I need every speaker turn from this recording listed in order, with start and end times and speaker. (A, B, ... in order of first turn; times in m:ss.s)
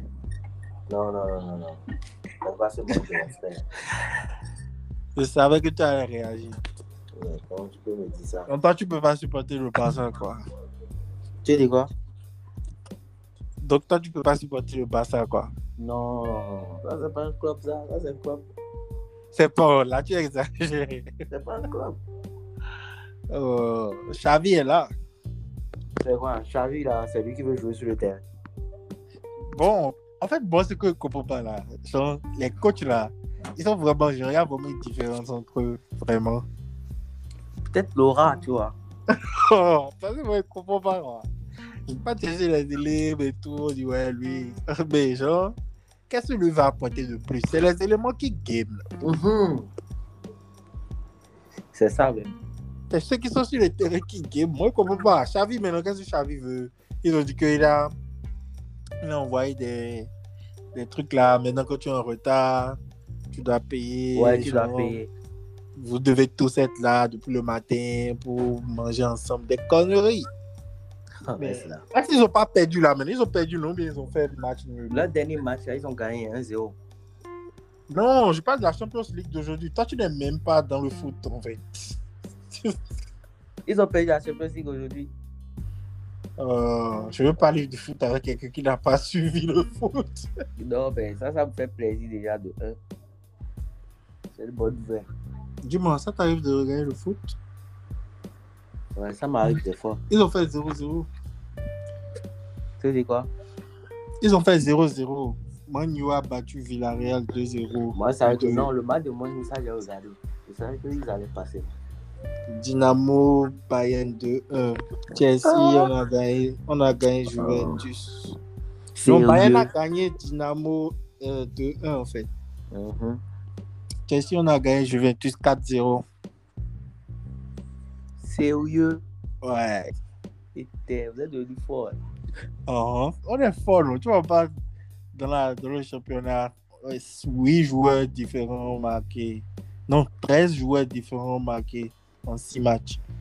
0:00.9-0:01.8 A
0:02.4-0:03.7 A
0:05.2-0:06.6 B
0:07.1-0:08.5 A
0:08.5-0:10.4 B
0:11.4-0:11.9 A
0:13.6-0:15.5 B
0:15.8-0:18.4 A
0:19.3-0:21.1 B
0:21.3-0:22.0 A
0:23.3-0:24.9 B
0:26.0-0:28.2 A
0:29.5-0:36.4 B
0:37.7-0:38.7 A
0:39.1-0:41.3 B
0:41.9-0:45.6 B
0:46.1-0:48.8 B
0:49.0-0:49.7 A
0:51.7-0:52.3 A
0:52.9-0:57.9 B
0:59.0-1:00.1 B
1:00.7-1:02.8 B
1:03.3-1:05.0 B
1:04.1-1:05.1 A
1:05.8-1:10.3 B
1:11.2-1:11.8 A
1:11.4-1:15.0 B
1:14.9-1:16.8 A
1:17.9-1:22.0 B
1:22.5-1:22.8 B
1:23.6-1:25.1 A
1:26.4-1:30.3 B
1:30.6-1:32.8 A
1:34.3-1:35.1 A
1:35.6-1:37.4 B
1:39.0-1:40.0 A
1:40.1-1:41.1 B
1:42.8-1:43.3 A
1:44.2-1:48.7 B
1:47.9-1:51.7 A
1:52.5-1:58.3 B
1:55.4-1:55.9 A
1:57.3-1:57.8 A
1:59.0-1:59.7 A
1:59.0-2:02.3 B
2:02.7-2:03.2 A
2:04.1-2:06.0 B
2:08.2-2:09.0 A
2:09.4-2:09.9 B
2:10.5-2:12.0 A
2:12.7-2:14.5 B
2:15.1-2:23.0 B